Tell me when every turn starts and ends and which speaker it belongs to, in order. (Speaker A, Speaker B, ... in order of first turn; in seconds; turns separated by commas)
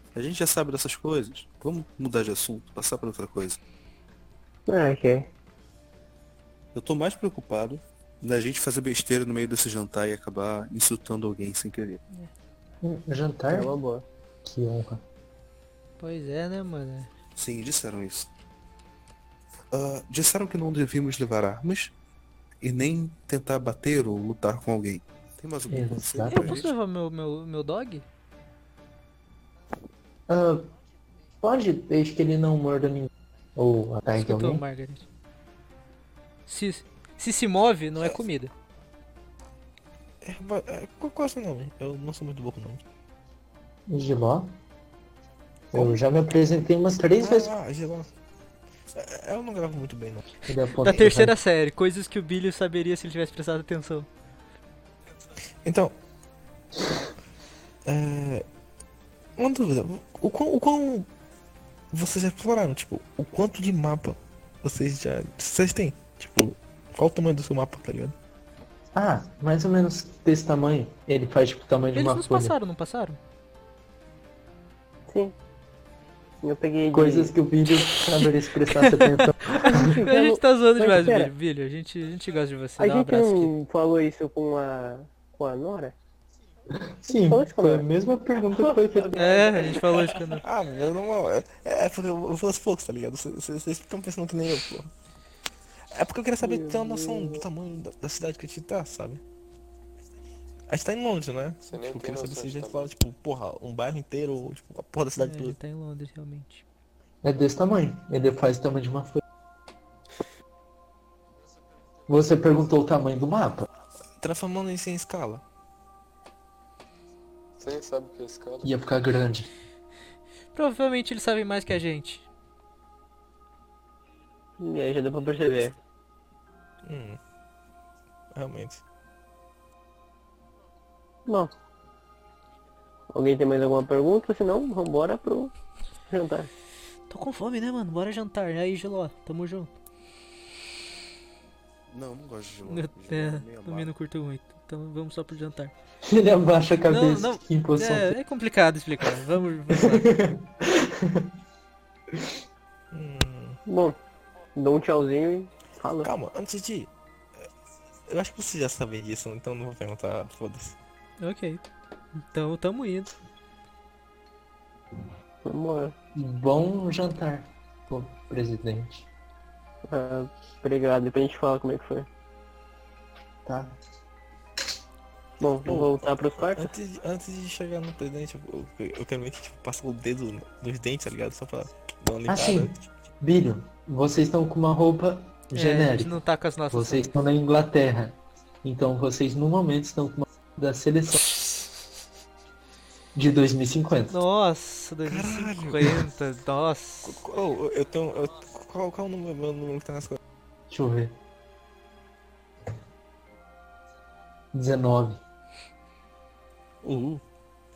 Speaker A: 0.1-3.6, Speaker B: 4.7-5.3, Speaker A: 6.8-12.0, Speaker C: 12.8-13.7, Speaker B: 13.5-14.1, Speaker C: 14.4-15.0, Speaker D: 16.0-17.1, Speaker A: 17.4-18.3, Speaker A: 19.7-21.9, Speaker A: 22.6-26.7, Speaker C: 25.7-26.6, Speaker D: 26.3-28.1, Speaker C: 30.3-30.7, Speaker C: 31.4-34.6, Speaker D: 34.2-35.1, Speaker D: 36.5-38.5, Speaker E: 40.2-42.8, Speaker C: 43.9-44.5, Speaker C: 45.7-47.5, Speaker E: 47.2-48.1, Speaker E: 48.9-50.3, Speaker C: 50.5-51.4, Speaker D: 50.8-54.1, Speaker E: 55.6-56.0, Speaker E: 57.9-58.5, Speaker E: 59.4-61.1, Speaker E: 61.9-68.2, Speaker C: 68.9-72.6, Speaker D: 72.0-73.2, Speaker B: 75.1-75.3, Speaker B: 76.4-77.4, Speaker C: 76.9-79.8, Speaker D: 78.2-83.5, Speaker B: 79.7-81.3, Speaker B: 82.8-86.0, Speaker C: 86.8-89.2, Speaker B: 87.1-87.9, Speaker B: 88.6-90.1, Speaker D: 89.2-90.5, Speaker E: 90.4-94.9, Speaker E: 95.9-99.2, Speaker B: 96.4-97.5, Speaker E: 100.7-105.6, Speaker F: 101.7-102.9, Speaker D: 105.2-106.7, Speaker C: 107.2-109.2, Speaker C: 112.1-113.7, Speaker E: 114.2-115.4, Speaker F: 117.6-118.7, Speaker C: 118.6-119.5, Speaker D: 120.5-122.2, Speaker B: 124.6-125.8, Speaker E: 126.8-127.2, Speaker E: 128.3-128.8, Speaker B: 131.3-131.5, Speaker B: 133.1-135.5, Speaker B: 136.1-136.5, Speaker D: 137.1-139.7, Speaker A: 141.9-143.9, Speaker D: 142.7-145.7, Speaker C: 146.0-148.2, Speaker D: 146.9-150.1, Speaker C: 149.7-151.3, Speaker E: 152.9-153.6, Speaker B: 153.7-154.0, Speaker B: 154.6-156.1, Speaker E: 156.0-156.9, Speaker E: 158.1-160.8, Speaker D: 161.2-161.6, Speaker D: 162.2-163.2, Speaker B: 165.4-165.9, Speaker C: 166.2-169.1, Speaker B: 169.9-172.1, Speaker C: 173.5-173.8, Speaker B: 175.4-176.7, Speaker E: 175.7-182.8, Speaker C: 182.3-186.2, Speaker D: 185.6-187.1, Speaker C: 186.7-191.7, Speaker C: 193.2-194.2, Speaker D: 194.1-197.2, Speaker E: 195.1-196.1, Speaker E: 197.0-200.2, Speaker C: 200.7-201.2, Speaker C: 204.5-205.2, Speaker E: 206.8-207.2